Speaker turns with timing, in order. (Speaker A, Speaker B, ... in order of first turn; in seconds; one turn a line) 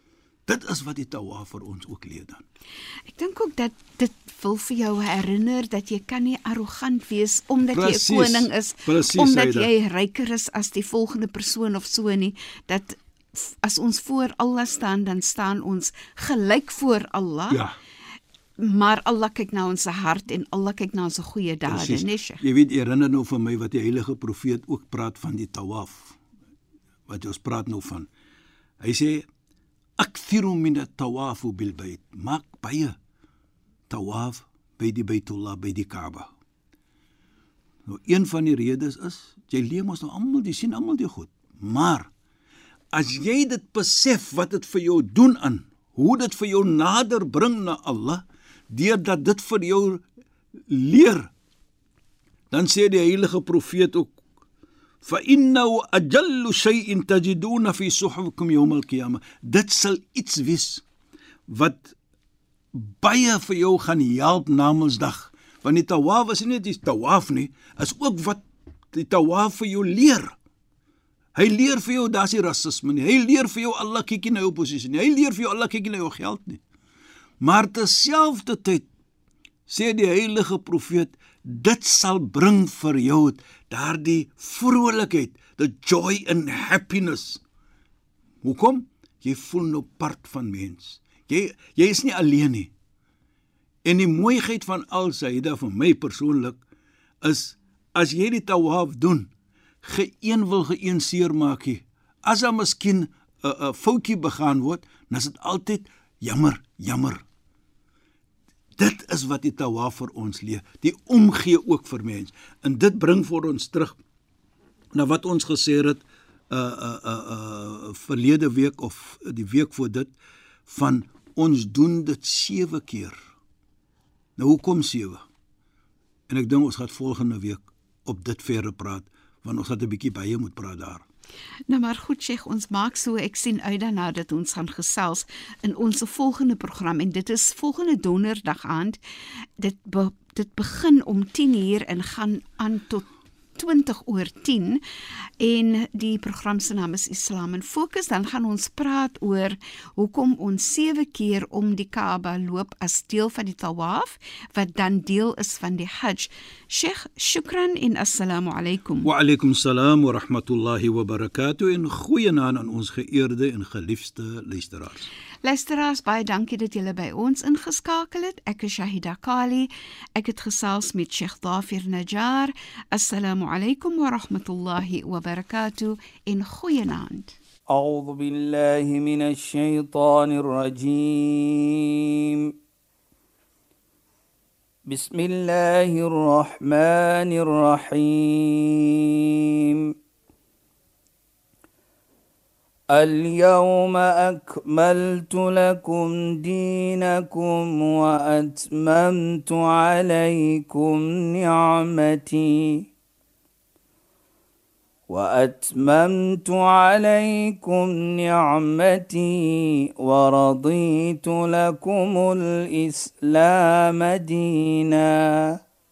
Speaker A: 0.5-2.4
Speaker B: 3.1-17.6
Speaker A: 7.7-9.7
Speaker A: 17.5-17.8
Speaker B: 18.6-22.4
Speaker A: 21.7-26.2
Speaker A: 27.1-28.1
Speaker A: 28.8-29.3
Speaker A: 30.0-33.0
Speaker A: 33.9-36.3
Speaker A: 37.9-42.1
Speaker A: 42.9-50.0
Speaker A: 50.7-51.3
Speaker A: 52.5-54.2
Speaker A: 55.0-60.8
Speaker A: 61.5-62.0
Speaker A: 62.7-70.4
Speaker A: 71.4-76.6
Speaker A: 77.4-78.9
Speaker A: 79.7-87.4
Speaker A: 88.4-92.7
Speaker A: 93.8-96.6
Speaker A: 97.2-99.3
Speaker A: 99.8-107.2
Speaker A: 108.8-114.0
Speaker A: 114.9-120.1
Speaker A: 120.7-123.2
Speaker A: 124.4-125.2
Speaker A: 126.3-131.0
Speaker B: 131.7-139.0
Speaker B: 139.6-144.8
Speaker B: 145.4-159.1
Speaker A: 159.0-165.1
Speaker B: 165.4-177.3
Speaker C: 177.7-182.5
Speaker C: 184.9-189.9
Speaker C: 192.9-202.9
Speaker C: 205.1-215.6